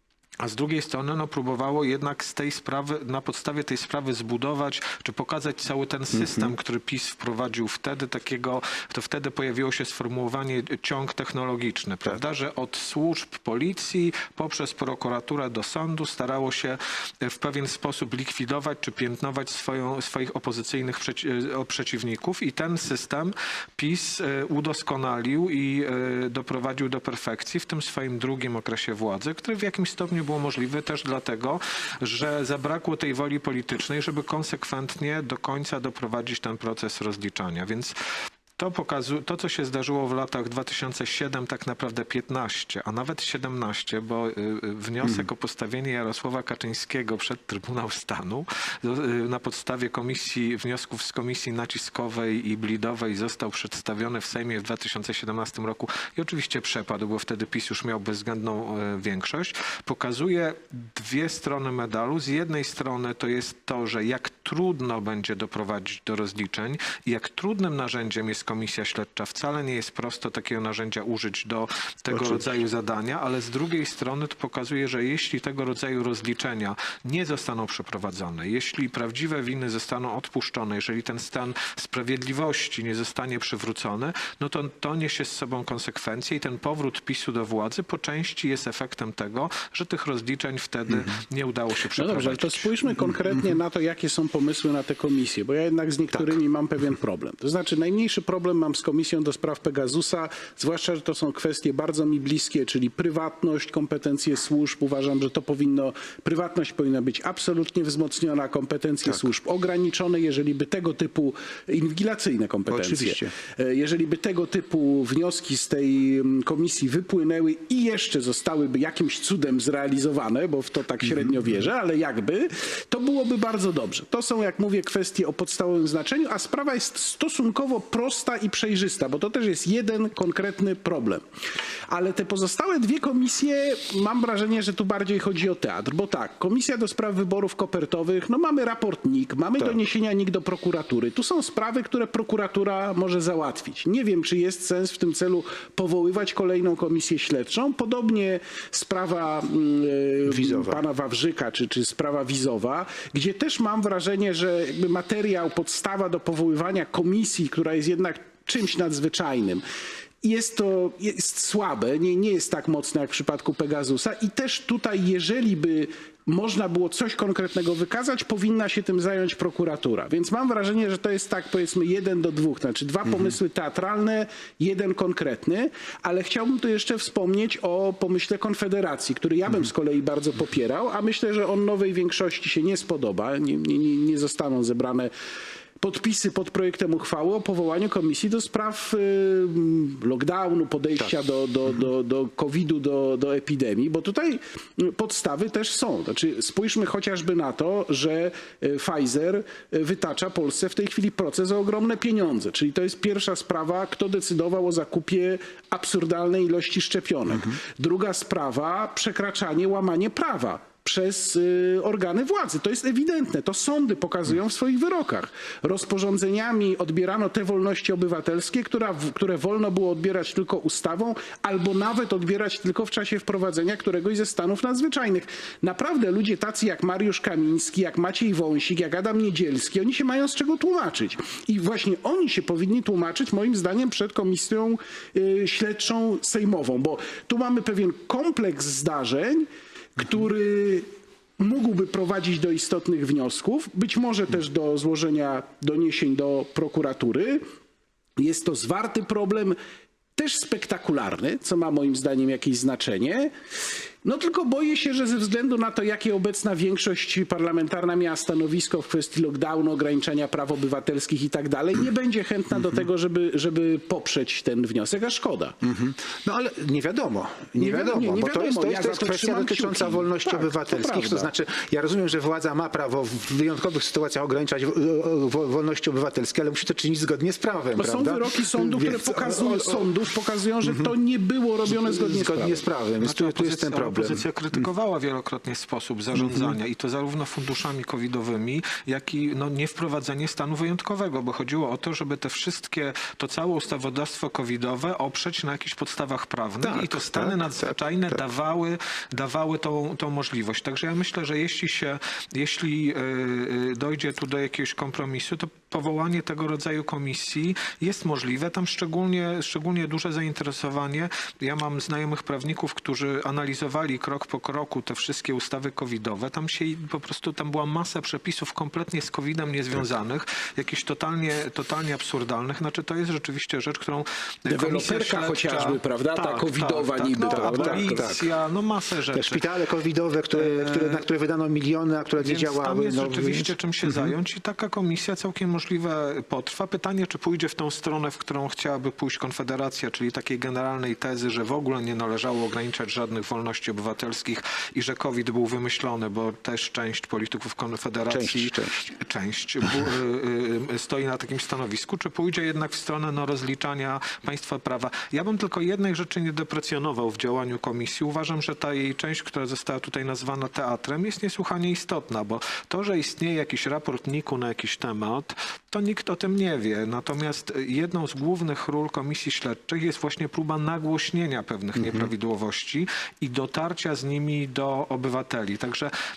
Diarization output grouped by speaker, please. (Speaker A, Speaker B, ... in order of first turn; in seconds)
Speaker A: 0.4-37.9, 38.6-92.7, 283.0-329.4, 330.3-331.0, 332.2-375.9
Speaker B: 92.0-131.2, 131.9-159.6, 160.2-185.1, 185.8-240.9, 241.4-247.4, 248.2-249.6, 250.2-253.3, 254.0-265.5, 267.6-271.3, 277.8-282.6, 324.5-328.2
Speaker C: 112.7-113.3, 150.2-150.8, 265.6-279.9, 280.6-280.9, 281.7-284.2, 286.1-286.5, 296.6-298.2, 327.3-328.2, 329.1-333.5, 348.1-348.8, 371.8-372.1